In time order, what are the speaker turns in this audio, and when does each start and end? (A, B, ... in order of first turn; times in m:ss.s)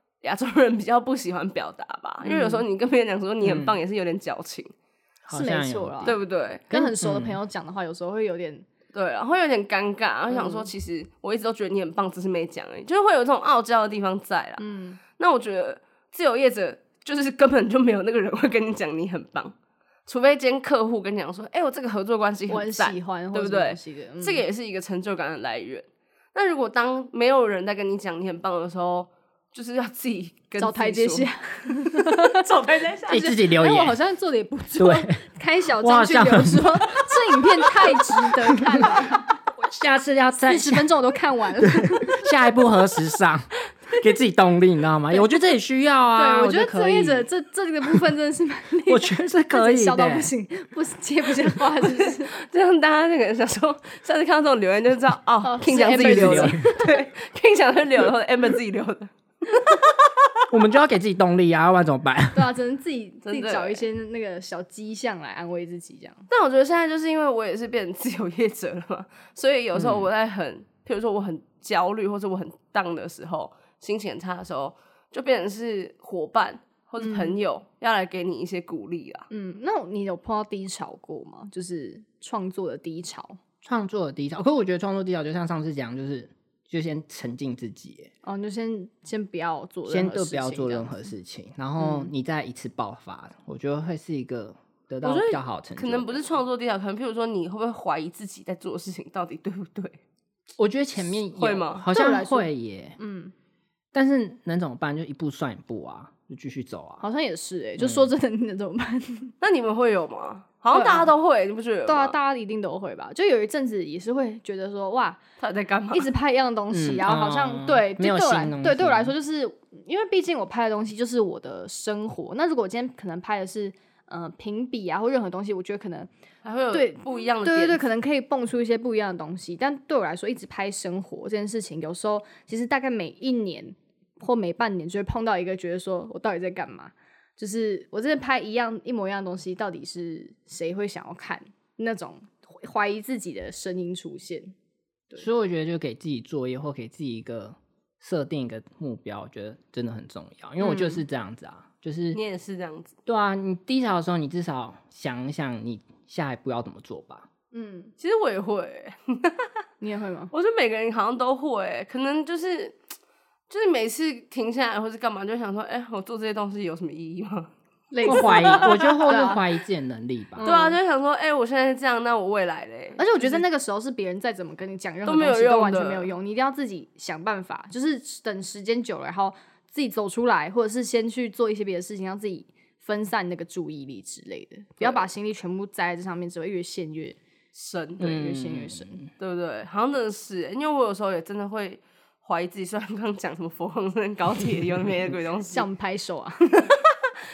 0:00.2-0:04.7 A
0:02.2-0:02.6 B
0:03.4-0:03.8 C
0:05.2-0:07.4 C
0:05.3-0:06.2 B
0:06.0-0:06.6 A
0:06.7-0:08.6 B
0:08.9-0:14.6 A
0:10.3-0:10.7 B
0:14.6-0:15.0 B
0:15.1-0:19.5 A
0:20.1-0:31.3 A
0:22.5-0:24.4 B
0:30.6-0:32.4 B
0:31.9-0:33.4 A
0:33.1-0:34.0 C
0:33.2-0:39.4 B
0:34.8-0:35.2 C
0:35.8-0:37.0 C
0:38.6-0:39.0 C
0:39.5-0:40.9 C
0:40.4-0:42.3 B
0:41.6-0:47.3 C
0:46.1-0:52.3 B
0:48.9-0:50.3 C
0:51.8-1:00.2 A
0:55.4-0:56.9 B
0:55.8-0:56.6 C
1:00.5-1:02.5 C
1:02.3-1:06.2 B
1:03.2-1:03.8 A
1:06.3-1:19.3 A
1:09.7-1:10.1 C
1:17.0-1:17.4 B
1:19.3-1:23.4 B
1:23.6-1:28.1 C
1:28.2-1:31.1 B
1:29.9-1:36.2 C
1:31.8-1:32.1 B
1:35.0-1:40.0 A
1:40.6-1:43.0 C
1:41.3-1:41.9 A
1:41.9-1:43.3 B
1:43.9-1:47.0 C
1:47.0-1:49.3 B
1:47.8-1:48.1 C
1:49.4-1:52.1 A
1:50.7-1:51.1 B
1:51.8-1:55.2 B
1:55.4-1:56.1 A
1:55.9-2:06.1 B
1:56.7-1:59.1 C
2:06.4-2:07.8 A
2:06.7-2:24.5 B
2:25.2-2:32.2 C
2:30.6-2:31.0 B
2:32.1-2:32.9 A
2:33.1-2:37.3 C
2:37.5-2:37.9 B
2:38.0-2:39.5 A
2:39.8-2:40.3 B
2:40.3-2:42.8 A
2:43.5-2:47.5 A
2:47.9-2:49.4 B
2:48.0-2:49.1 A
2:48.0-2:50.5 C
2:50.4-2:50.8 B
2:50.4-2:53.4 A
2:53.0-3:07.2 B
2:55.0-2:56.1 A
3:04.8-3:05.0 A
3:07.5-3:08.1 A
3:08.0-3:09.1 C
3:08.0-3:09.0 B
3:09.2-3:15.7 A
3:15.5-3:16.7 B